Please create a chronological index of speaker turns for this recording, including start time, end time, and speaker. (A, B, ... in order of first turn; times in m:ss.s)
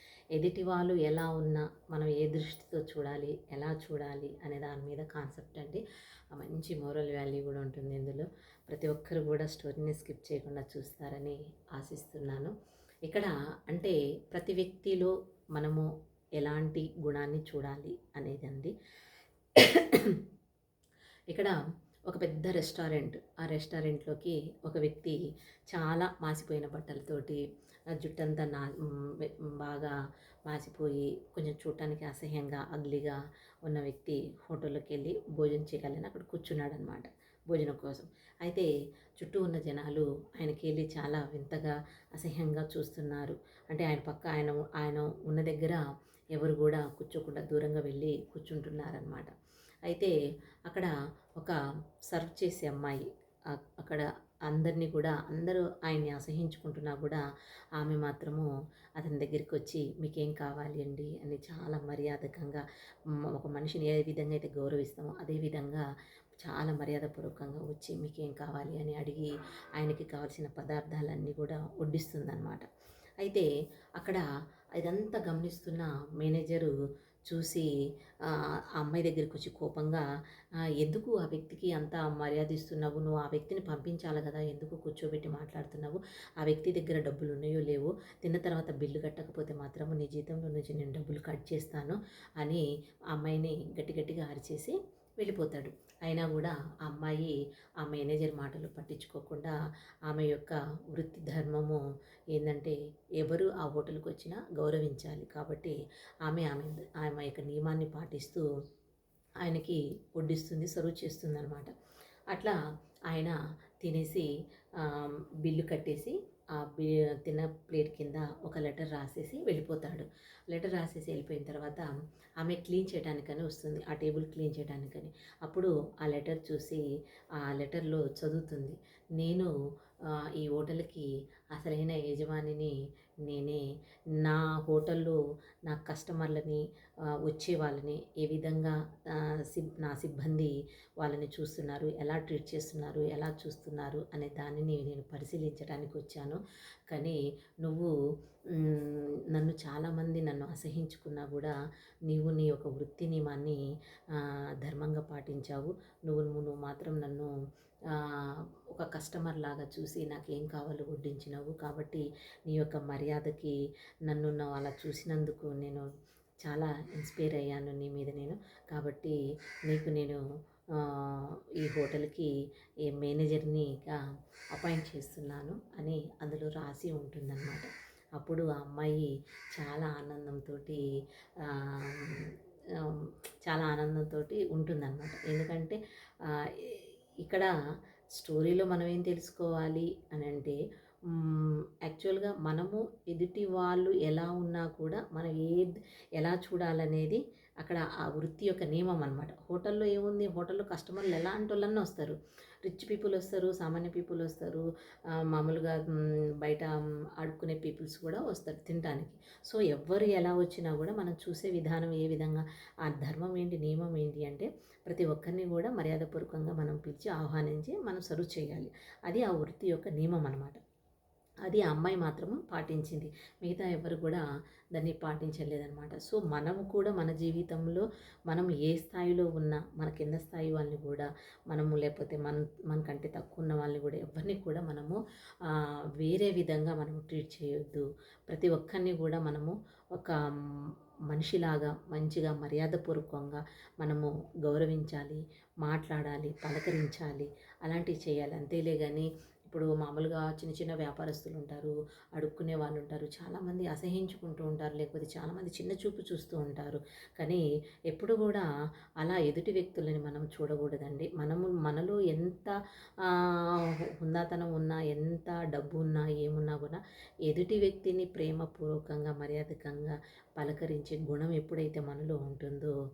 0:00.3-0:12.5 A
0:13.0-0:15.9 A
0:16.4-0:18.7 A
0:19.6-0:20.2 A
0:22.1-0:25.2 A
0:25.7-0:27.4 A
0:28.0-0:29.9 A
0:30.5-0:49.3 A
0:49.9-0:50.1 A
0:50.7-0:51.6 A
0:52.1-0:57.2 A
0:57.8-1:02.6 A
1:03.3-1:05.8 A
1:06.4-1:12.6 A
1:13.2-1:13.5 A
1:14.0-1:14.2 A
1:14.8-1:16.7 A
1:17.3-1:17.7 A
1:18.2-1:20.0 A
1:20.8-1:39.5 A
1:40.0-1:48.4 A
1:49.4-1:51.7 A
1:52.3-1:52.6 A
1:53.1-2:06.8 A
2:07.4-2:09.5 A
2:10.4-2:12.7 A
2:13.2-2:13.6 A
2:14.2-2:16.6 A
2:17.2-2:27.9 A
2:28.6-2:31.5 A
2:32.1-2:33.6 A
2:34.1-2:37.3 A
2:37.9-2:43.5 A
2:44.1-2:45.8 A
2:46.4-2:50.2 A
2:50.8-2:52.3 A
2:52.8-2:54.0 A
2:54.5-3:00.8 A
3:01.4-3:07.5 A
3:08.2-3:10.6 A
3:11.1-3:40.6 A
3:41.4-3:44.2 A
3:44.7-4:00.2 A
4:01.1-4:18.4 A
4:19.0-4:32.7 A